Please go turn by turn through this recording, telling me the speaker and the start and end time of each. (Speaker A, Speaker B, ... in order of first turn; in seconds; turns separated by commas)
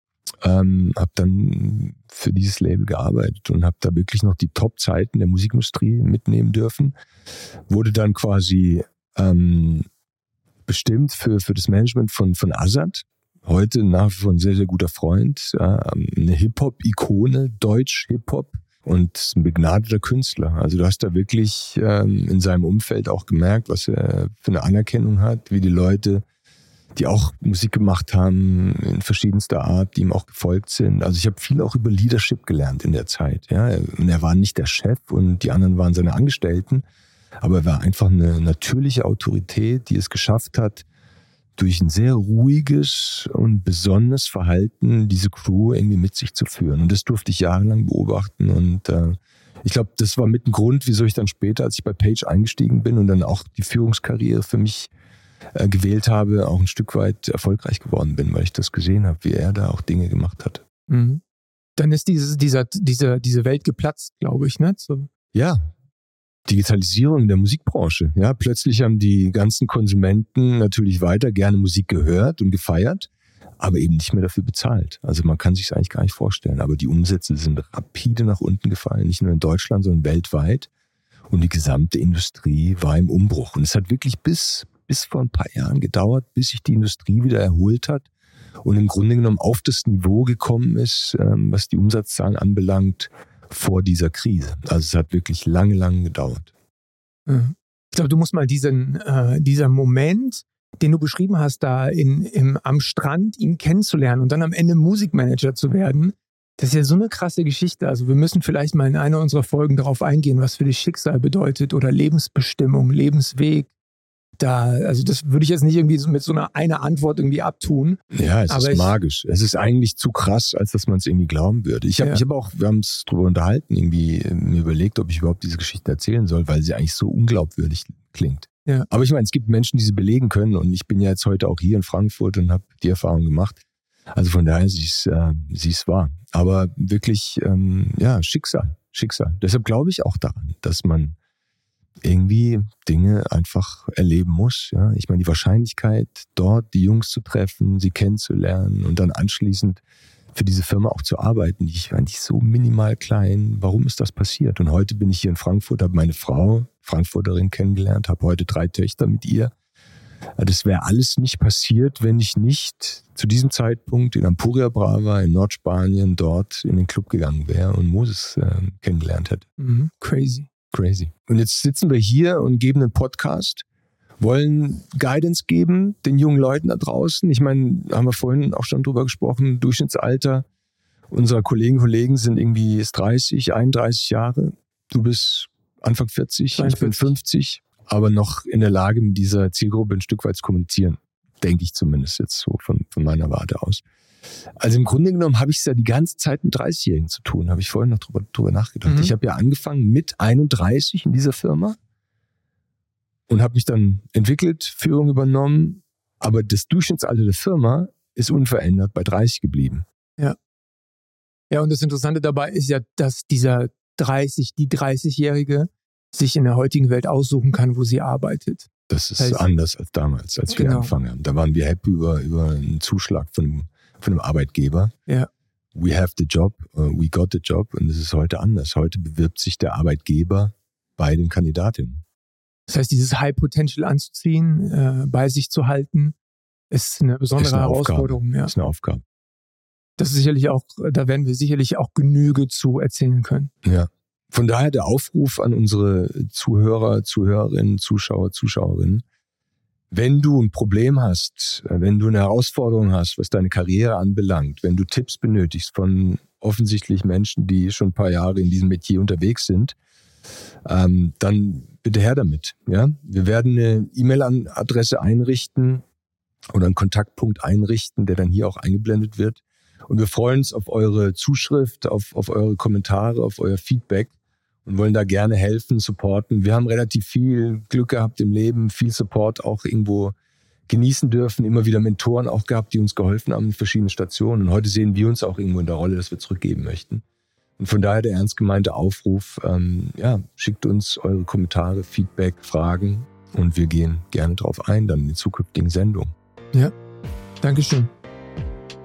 Speaker A: 0.4-7.0, Speaker A: 7.7-9.9, Speaker A: 10.7-26.2, Speaker A: 27.0-36.9, Speaker A: 37.4-40.9, Speaker A: 41.6-54.9, Speaker A: 55.5-60.6, Speaker B: 60.9-61.2, Speaker B: 61.8-65.1, Speaker A: 65.3-65.7, Speaker A: 66.5-73.1, Speaker A: 73.6-80.7, Speaker A: 81.3-88.1, Speaker A: 88.6-96.5, Speaker B: 97.3-113.7, Speaker B: 114.4-119.0, Speaker A: 118.1-133.6, Speaker A: 134.1-141.2, Speaker A: 142.0-149.8, Speaker A: 150.3-159.5, Speaker A: 160.4-169.4, Speaker B: 169.6-170.5, Speaker A: 170.7-173.6, Speaker A: 174.2-180.5, Speaker A: 181.1-193.8, Speaker B: 186.6-187.1, Speaker A: 194.6-201.8, Speaker B: 198.9-199.1, Speaker A: 203.3-209.8, Speaker B: 211.5-219.5, Speaker A: 218.9-224.9, Speaker B: 220.5-220.9, Speaker A: 225.8-232.0, Speaker B: 232.7-236.2, Speaker B: 236.7-238.5, Speaker A: 237.4-239.0, Speaker B: 240.0-243.5, Speaker A: 243.6-249.0, Speaker A: 249.9-259.8, Speaker A: 260.7-265.8, Speaker A: 266.5-274.1, Speaker A: 274.7-280.1, Speaker A: 280.7-287.0, Speaker A: 287.6-296.1, Speaker B: 297.4-297.9